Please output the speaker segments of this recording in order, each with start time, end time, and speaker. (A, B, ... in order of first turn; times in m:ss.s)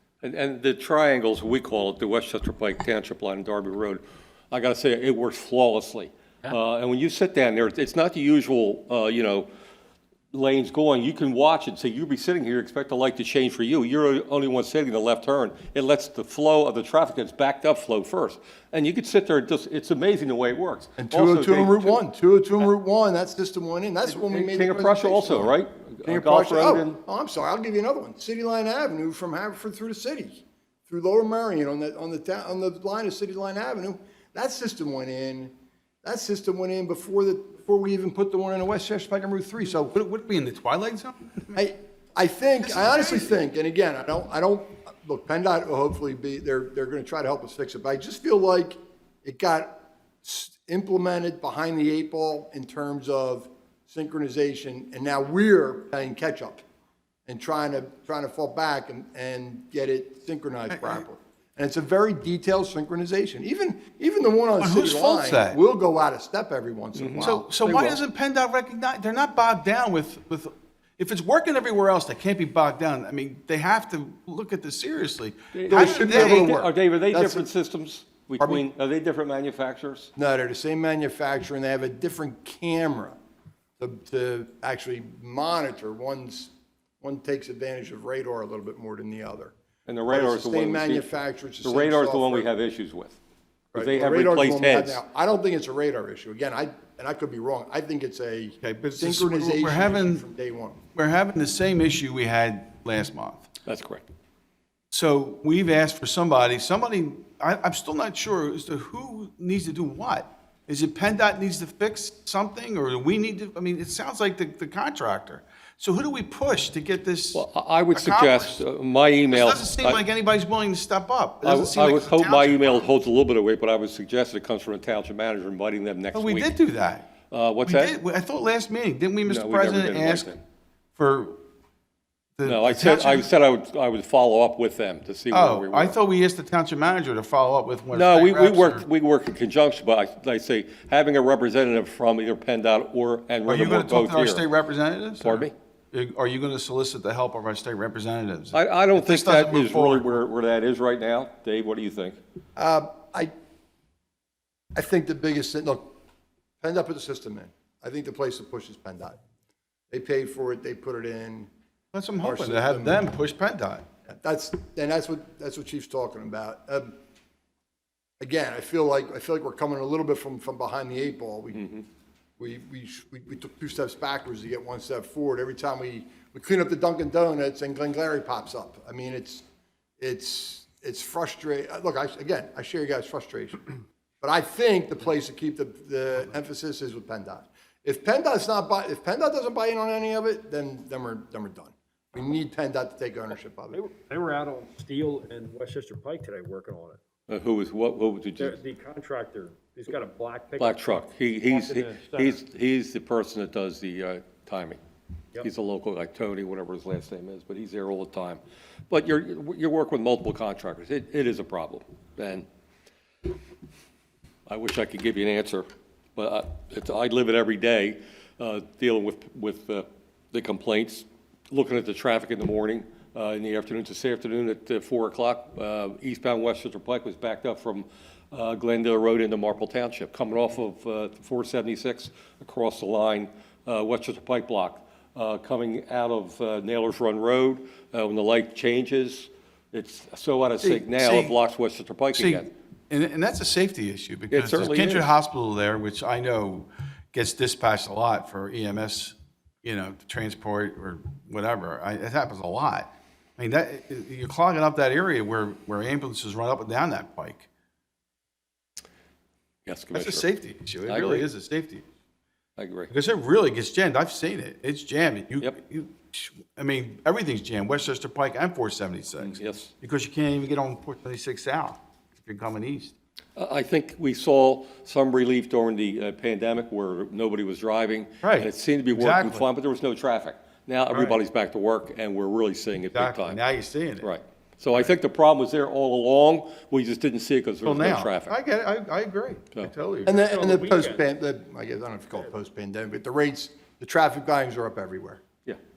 0:00.2-0:09.5 A
0:10.3-0:22.0 A
0:21.0-0:35.5 B
0:24.1-0:27.0 A
0:36.0-0:40.0 B
0:39.9-0:41.7 C
0:41.6-0:56.6 B
0:42.6-0:43.4 C
0:57.3-1:07.5 B
1:00.7-1:01.0 C
1:04.6-1:05.6 C
1:07.0-1:08.0 A
1:07.2-1:16.5 C
1:15.5-1:20.1 A
1:15.7-1:17.5 B
1:20.2-1:23.2 B
1:23.8-1:29.5 B
1:29.9-1:31.1 A
1:30.1-1:32.5 B
1:31.6-1:33.2 A
1:33.7-1:40.8 B
1:33.8-1:35.0 A
1:38.6-1:40.2 C
1:41.0-1:43.5 C
1:43.6-1:44.0 A
1:44.9-1:58.6 C
1:57.3-2:00.0 A
1:59.3-2:02.9 C
2:01.4-2:06.5 A
2:06.1-2:07.1 C
2:07.3-2:08.0 A
2:07.6-2:10.3 C
2:09.3-2:10.4 A
2:11.0-2:11.4 C
2:12.4-2:13.3 C
2:12.4-2:16.0 A
2:15.3-2:18.9 C
2:17.9-2:24.4 A
2:23.5-2:30.2 C
2:25.2-2:25.5 A
2:28.5-2:32.2 A
2:32.6-2:33.3 B
2:34.7-2:35.9 B
2:36.6-2:39.2 B
2:39.9-2:41.5 B
2:41.9-2:43.9 C
2:42.2-2:43.0 B
2:44.1-2:46.9 B
2:48.2-2:51.8 B
2:52.4-2:59.4 B
3:00.0-3:03.7 B
3:04.2-3:13.8 B
3:13.7-3:17.0 D
3:17.3-3:18.6 A
3:18.4-3:22.4 D
3:20.6-3:24.8 A
3:25.4-3:32.4 A
3:34.5-3:35.7 A
3:36.2-4:02.5 A
4:00.6-4:01.4 C
4:02.2-4:17.5 C
4:04.3-4:05.1 A
4:19.7-4:20.3 A
4:19.9-4:21.8 C
4:20.9-4:21.3 A
4:22.6-4:22.9 A
4:22.9-4:32.9 C
4:29.2-4:29.7 A
4:33.4-4:43.4 A
4:38.2-4:39.4 C
4:40.9-4:41.2 C
4:42.9-4:44.1 C
4:44.0-4:48.4 A
4:47.6-4:50.2 C
4:50.1-4:55.2 B
4:50.1-4:51.0 D